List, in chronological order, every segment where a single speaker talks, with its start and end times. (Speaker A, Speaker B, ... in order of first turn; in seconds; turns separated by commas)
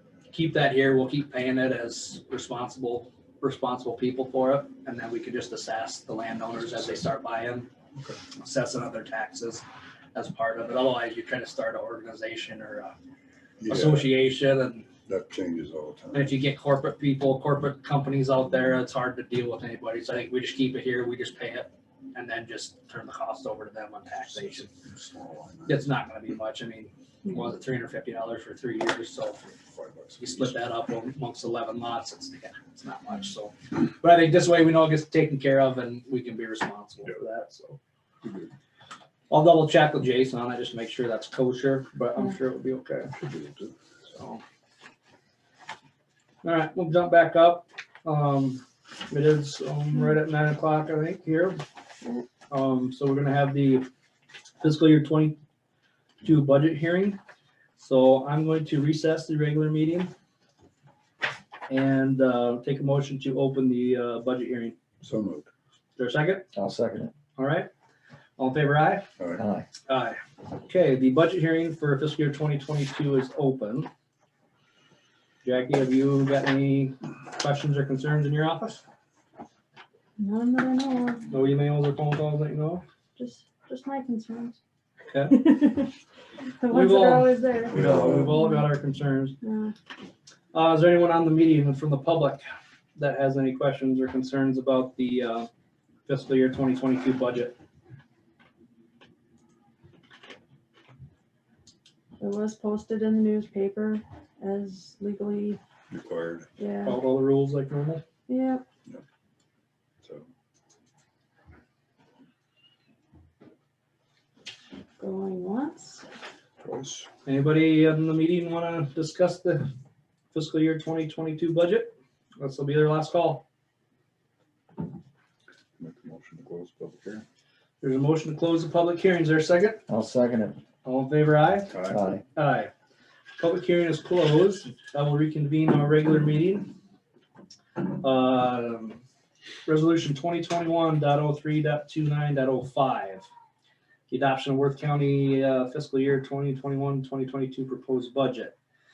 Speaker A: 0.3-7.7, Speaker B: 6.7-7.0, Speaker A: 8.3-12.9, Speaker B: 13.6-14.1, Speaker A: 13.7-14.9, Speaker B: 15.1-16.4, Speaker A: 16.1-24.7, Speaker B: 24.3-25.9, Speaker A: 25.7-29.4, Speaker B: 29.5-30.6, Speaker A: 30.2-37.8, Speaker B: 38.2-38.5, Speaker A: 39.3-43.1, Speaker B: 43.1-43.7, Speaker A: 44.1-44.4, Speaker A: 46.4-51.6, Speaker A: 52.5-53.9, Speaker A: 54.6-55.4, Speaker A: 56.2-57.2, Speaker A: 57.8-60.1, Speaker A: 61.7-64.8, Speaker B: 65.0-65.5, Speaker A: 66.0-66.5, Speaker C: 66.5-67.1, Speaker A: 67.4-67.7, Speaker A: 68.4-69.1, Speaker B: 69.2-69.4, Speaker C: 69.4-69.7, Speaker A: 69.9-73.9, Speaker A: 75.4-78.8, Speaker D: 80.2-81.3, Speaker A: 81.3-82.8, Speaker D: 83.2-84.6, Speaker A: 85.1-85.6, Speaker D: 85.3-85.9, Speaker D: 86.6-87.8, Speaker A: 86.7-89.3, Speaker B: 87.7-88.4, Speaker D: 89.4-89.7, Speaker A: 90.5-95.5, Speaker A: 96.1-97.5, Speaker D: 102.2-105.6, Speaker B: 105.9-106.5, Speaker D: 106.6-107.0, Speaker A: 106.8-108.0, Speaker D: 108.3-108.6, Speaker B: 110.0-110.3, Speaker D: 115.0-116.0, Speaker B: 116.6-117.1, Speaker A: 117.2-119.7, Speaker A: 120.3-123.4, Speaker B: 125.8-127.2, Speaker A: 127.8-129.8, Speaker C: 129.9-130.6, Speaker A: 130.8-131.7, Speaker B: 131.7-132.0, Speaker C: 131.9-132.2, Speaker A: 132.3-132.7, Speaker A: 133.4-136.7, Speaker A: 137.8-139.0, Speaker A: 139.7-143.3, Speaker A: 144.1-148.5